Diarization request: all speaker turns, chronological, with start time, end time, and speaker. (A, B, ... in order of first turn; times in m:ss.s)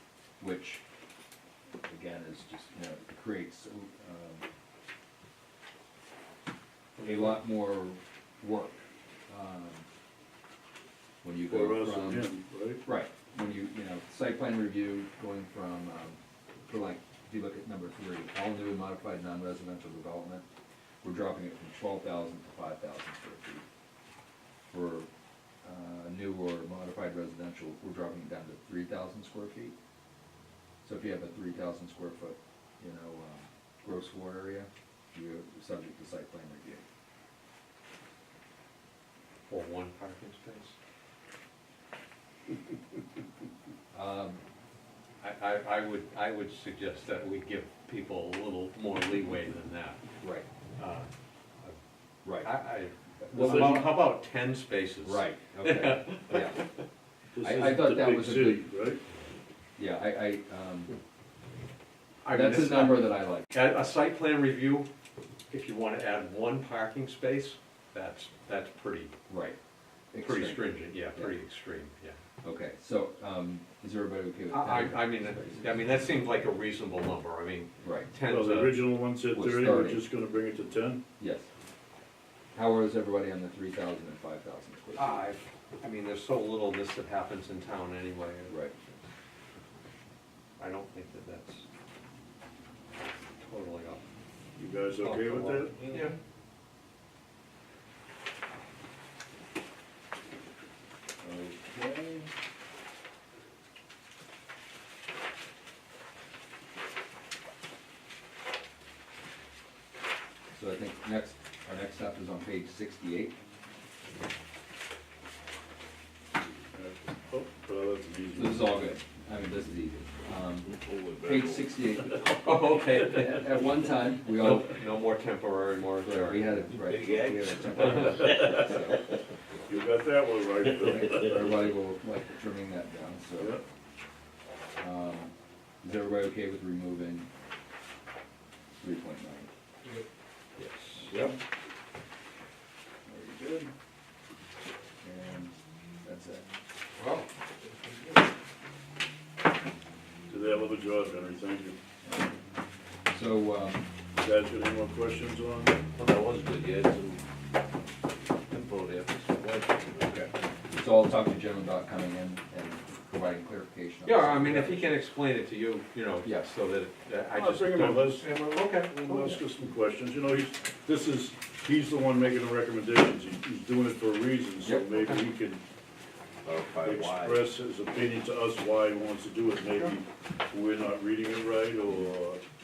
0:00.4-0:00.8 A
0:01.8-0:04.4 A
0:07.0-0:09.9 A
0:11.2-0:12.3 A
0:11.5-0:12.8 B
0:12.8-0:20.5 A
0:21.0-0:23.6 A
0:24.7-0:25.1 A
0:25.6-0:29.8 A
0:30.8-0:36.8 A
0:39.5-0:40.8 C
0:43.9-0:44.4 A
0:45.2-0:50.0 C
0:50.2-0:50.5 A
0:50.8-0:51.1 C
0:52.2-0:52.6 A
0:52.4-0:56.6 C
0:53.3-0:53.9 A
0:53.4-0:53.7 B
0:55.0-0:56.6 A
0:57.4-0:59.0 B
0:57.4-0:58.7 A
0:59.8-1:00.9 A
1:02.2-1:04.9 C
1:02.3-1:03.5 A
1:05.5-1:09.1 C
1:09.3-1:09.6 A
1:10.1-1:11.4 A
1:10.2-1:12.2 C
1:12.4-1:15.9 A
1:14.5-1:18.9 C
1:17.8-1:18.1 A
1:18.2-1:21.0 B
1:19.3-1:20.1 A
1:21.2-1:21.5 A
1:22.5-1:25.3 A
1:25.0-1:28.7 C
1:28.5-1:28.7 A
1:30.6-1:31.6 C
1:33.4-1:34.0 C
1:34.6-1:35.8 B
1:35.0-1:36.2 C
1:41.2-1:42.3 A
1:50.5-1:53.4 A
1:56.7-1:58.7 B
1:58.4-2:04.8 A
2:00.7-2:02.0 D
2:02.4-2:06.6 C
2:06.0-2:09.0 A
2:06.7-2:08.8 D
2:09.7-2:11.7 B
2:10.9-2:13.6 A
2:13.4-2:13.6 B
2:14.8-2:17.3 A
2:18.8-2:19.5 A
2:20.6-2:21.1 C
2:21.0-2:21.4 A
2:23.1-2:23.7 A
2:25.0-2:26.5 A
2:27.0-2:27.3 C
2:30.3-2:31.8 B
2:32.0-2:32.3 A
2:33.1-2:33.9 A
2:34.2-2:35.8 B
2:36.0-2:37.2 D
2:38.5-2:40.0 D
2:40.0-2:45.0 A
2:44.0-2:49.3 C
2:46.2-2:46.5 A
2:47.3-2:48.3 B
2:48.9-2:55.6 B
2:54.6-2:54.9 A
2:55.0-2:55.2 C
2:56.4-2:57.4 D
2:56.8-3:02.4 B